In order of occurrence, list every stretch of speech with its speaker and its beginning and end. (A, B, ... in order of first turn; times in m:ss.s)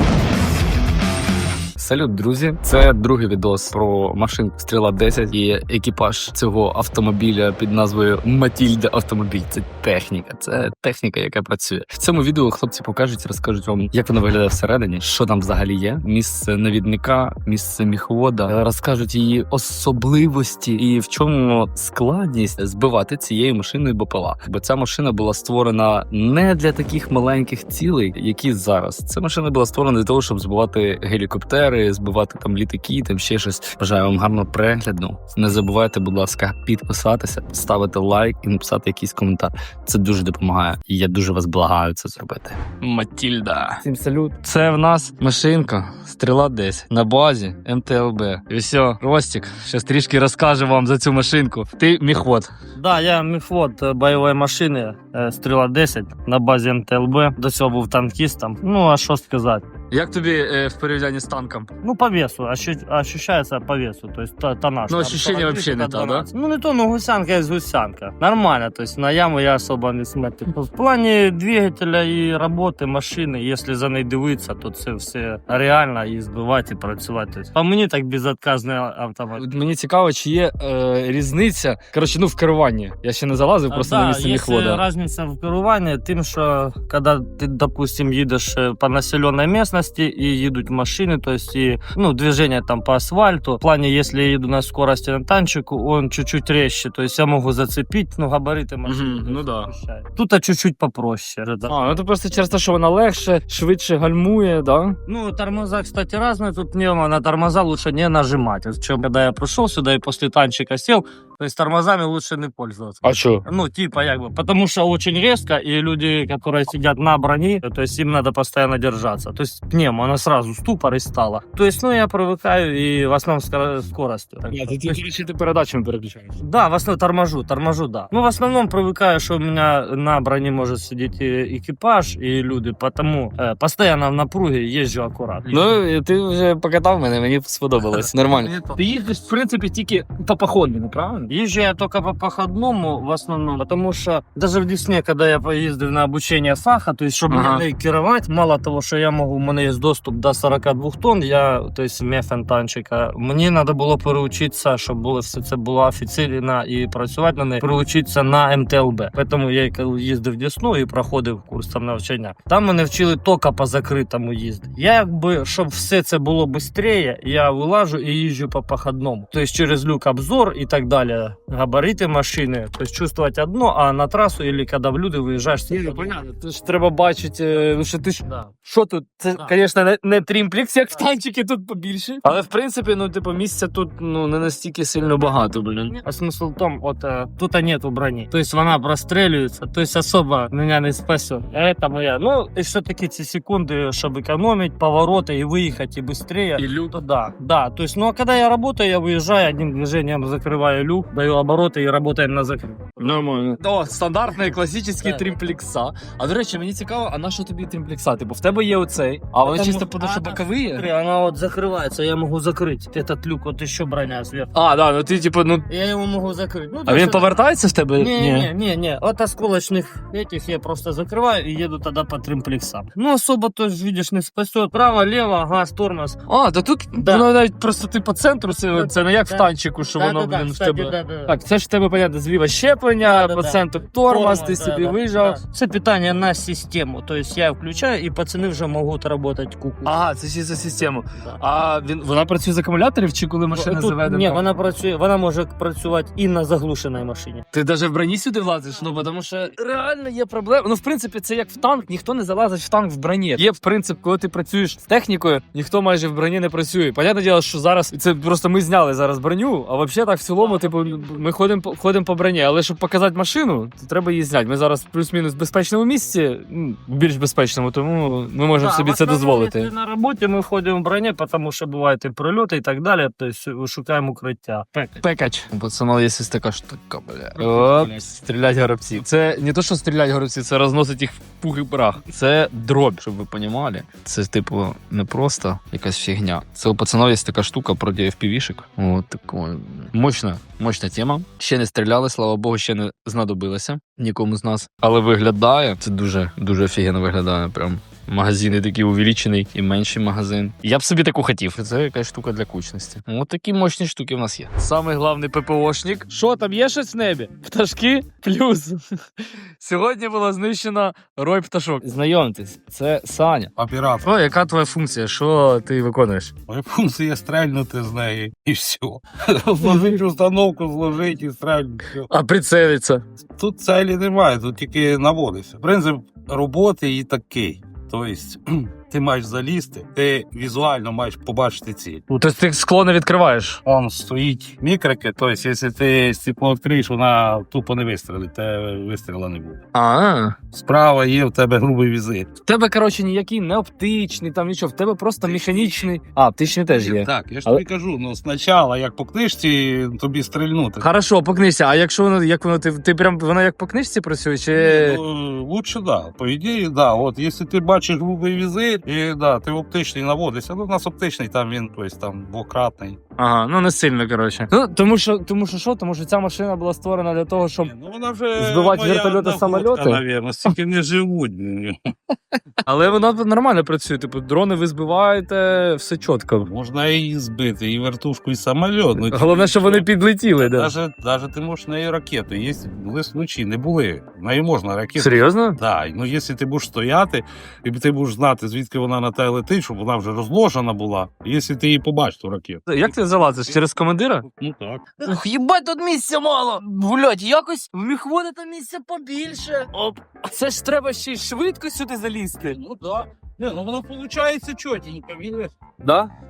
0:01.8-0:52.5 A
0:52.8-0:59.7 B
0:59.9-1:01.7 A
1:01.8-1:19.4 B
1:04.9-1:06.3 A
1:19.4-1:24.8 A
1:23.7-1:41.7 B
1:38.8-1:39.7 A
1:41.7-1:45.0 A
1:45.1-2:05.0 B
1:53.0-1:53.4 A
2:04.5-2:06.4 A
2:06.4-2:15.8 B
2:15.5-2:21.3 A
2:17.9-2:18.8 B
2:21.3-2:56.2 B
2:27.3-2:27.6 A
2:55.7-3:05.9 A
2:58.2-2:58.5 B
3:05.9-3:23.2 B
3:16.6-3:16.9 A
3:23.0-3:30.8 A
3:25.0-3:25.4 B
3:29.4-3:34.5 B
3:34.6-3:35.6 A
3:35.7-3:37.4 B
3:36.9-3:38.5 A
3:38.0-3:46.2 B
3:46.3-3:55.4 A
3:47.0-3:47.3 B
3:48.7-3:51.4 B
3:53.0-3:59.9 B
3:59.8-4:04.4 A
4:03.5-4:07.4 B
4:07.5-4:29.7 A
4:20.4-4:21.3 B
4:28.6-4:35.0 B
4:35.0-5:08.8 A
5:09.6-5:13.5 A
5:13.6-5:14.1 C
5:14.0-5:16.3 A
5:16.5-5:22.1 C
5:22.1-5:23.0 A
5:23.4-5:32.0 C
5:32.1-5:33.6 A
5:33.6-5:39.6 C
5:39.8-5:40.4 A
5:40.5-5:42.3 C
5:42.5-5:47.6 A
5:45.2-5:46.0 C
5:46.7-5:50.9 C
5:50.8-5:55.0 A
5:54.5-6:03.0 C
6:03.2-6:07.7 A
6:07.6-6:11.8 C
6:08.4-6:10.5 A
6:12.6-6:16.5 A
6:16.4-6:33.6 C
6:19.1-6:20.7 A
6:25.0-6:25.6 A
6:32.7-6:34.2 A
6:34.2-6:35.1 C
6:35.0-6:42.6 A
6:42.5-6:45.6 C
6:45.8-6:46.1 A